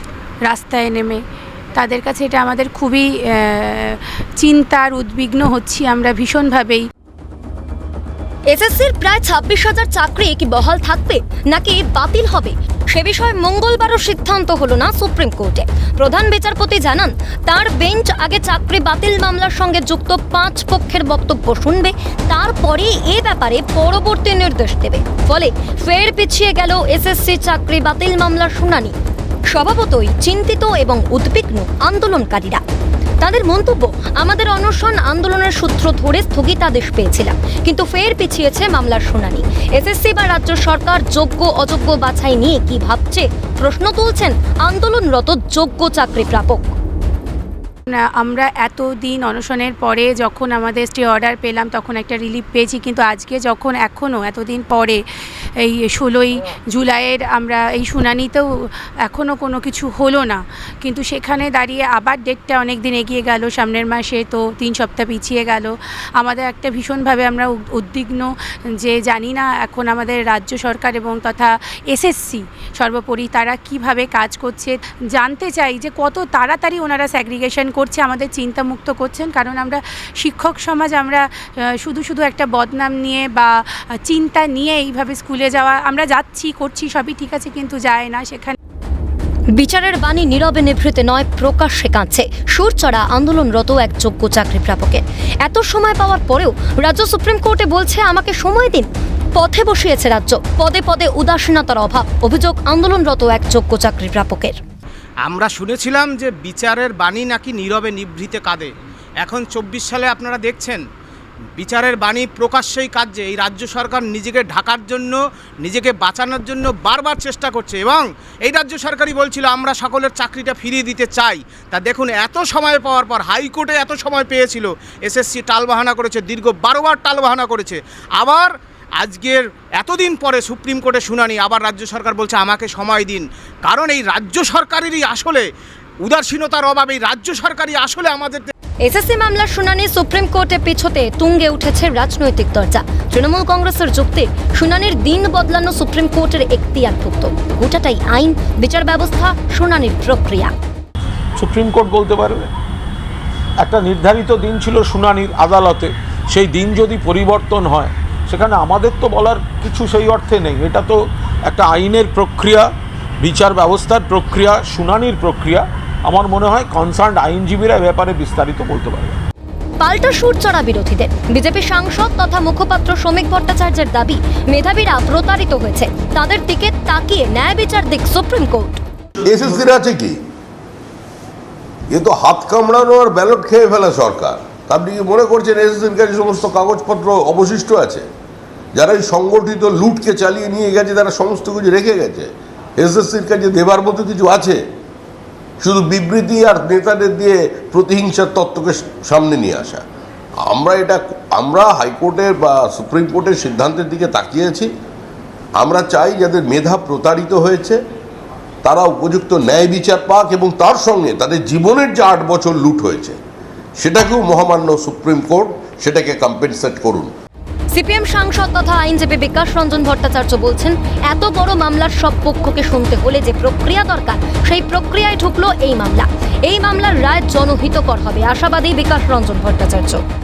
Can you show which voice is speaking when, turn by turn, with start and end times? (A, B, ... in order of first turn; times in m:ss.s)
0:00.5-0:01.2 A
0:01.8-0:06.9 A
0:08.5-0:28.9 B
0:29.5-0:32.6 B
0:33.2-0:46.7 B
0:47.9-0:55.0 A
0:55.6-1:28.6 A
1:29.6-1:44.6 B
1:45.2-1:50.8 C
1:51.6-2:15.5 C
2:16.0-2:18.5 C
2:18.8-2:30.5 B
2:31.4-2:32.5 D
2:33.6-2:49.2 D
2:49.8-2:58.8 B
2:59.3-3:00.2 E
3:01.9-3:08.0 E
3:08.8-3:14.6 E
3:15.6-3:19.8 E
3:20.4-3:24.7 E
3:25.6-3:27.8 E
3:28.6-3:33.2 E
3:33.8-3:37.1 E
3:37.7-3:50.0 B